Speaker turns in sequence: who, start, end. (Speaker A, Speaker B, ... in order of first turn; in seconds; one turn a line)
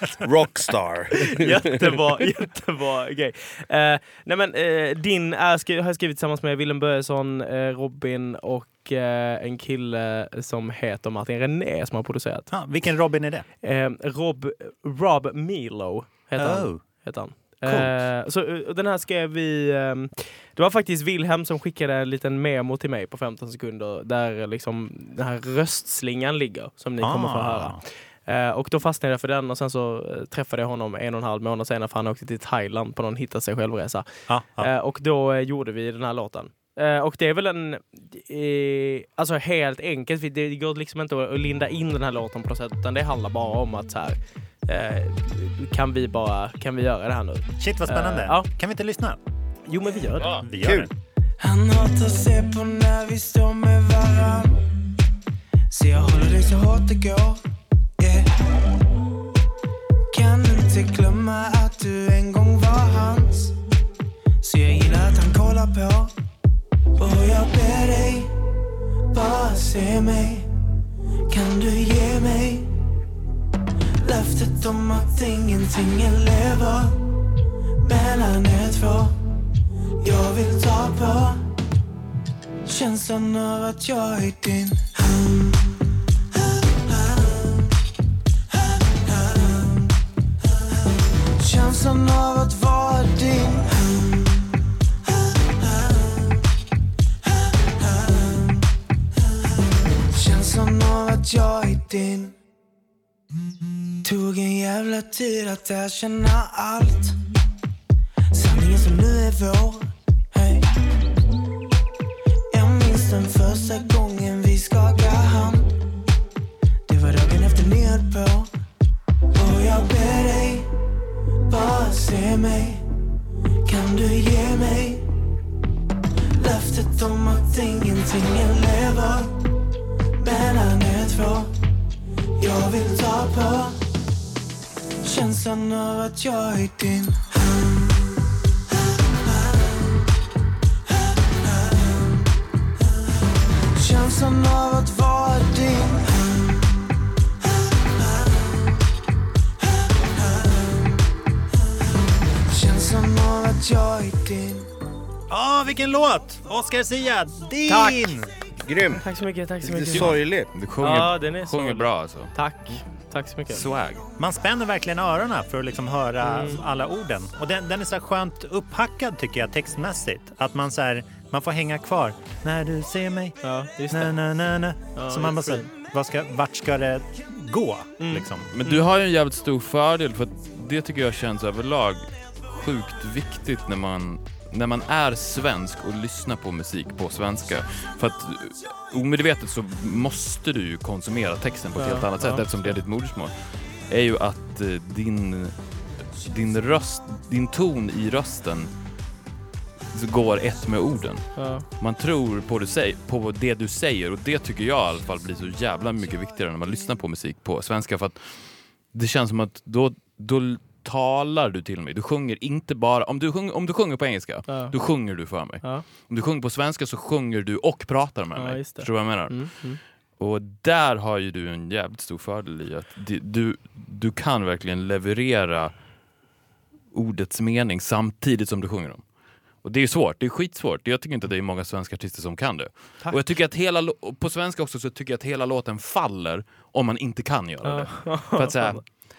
Speaker A: 0.2-1.9
Speaker B: 1.1-12.5
Speaker C: 12.5-13.4
Speaker B: 13.6-34.0
Speaker C: 16.4-16.8
Speaker C: 17.6-18.1
Speaker C: 27.0-27.8
Speaker C: 34.3-34.7
Speaker B: 34.6-48.5
Speaker C: 47.6-49.2
Speaker B: 49.7-50.4
Speaker C: 50.4-50.9
Speaker A: 50.6-50.9
Speaker D: 51.4-54.5
Speaker D: 55.7-57.4
Speaker D: 58.0-58.2
Speaker D: 60.1-63.5
Speaker D: 64.4-66.1
Speaker D: 67.0-68.3
Speaker D: 69.1-70.5
Speaker D: 71.3-72.7
Speaker D: 74.0-76.9
Speaker D: 77.8-79.1
Speaker D: 80.0-81.4
Speaker D: 82.7-84.8
Speaker D: 91.4-93.6
Speaker D: 100.2-102.3
Speaker D: 104.0-107.1
Speaker D: 108.3-110.6
Speaker D: 112.5-115.7
Speaker D: 116.9-118.5
Speaker D: 119.4-120.6
Speaker D: 121.5-122.8
Speaker D: 123.7-125.0
Speaker D: 126.4-129.3
Speaker D: 130.2-131.5
Speaker D: 132.4-133.7
Speaker D: 135.1-137.2
Speaker D: 143.8-146.0
Speaker D: 152.5-154.7
Speaker C: 155.3-158.3
Speaker B: 157.7-158.1
Speaker A: 158.6-159.0
Speaker B: 158.9-160.2
Speaker A: 159.6-160.5
Speaker E: 159.9-162.3
Speaker B: 160.8-163.6
Speaker E: 163.5-164.0
Speaker C: 164.2-173.4
Speaker B: 166.2-166.6
Speaker B: 173.4-174.1
Speaker C: 173.9-178.5
Speaker B: 174.9-175.7
Speaker B: 178.0-178.8
Speaker E: 178.5-193.3
Speaker B: 191.8-192.4
Speaker E: 193.9-195.5
Speaker E: 196.2-198.7
Speaker E: 199.9-201.3
Speaker B: 201.4-201.6
Speaker E: 201.8-208.3
Speaker E: 208.9-219.5
Speaker B: 214.5-214.7
Speaker B: 218.3-219.8
Speaker E: 220.2-225.7
Speaker E: 226.9-229.0
Speaker E: 229.6-238.8
Speaker B: 237.6-238.8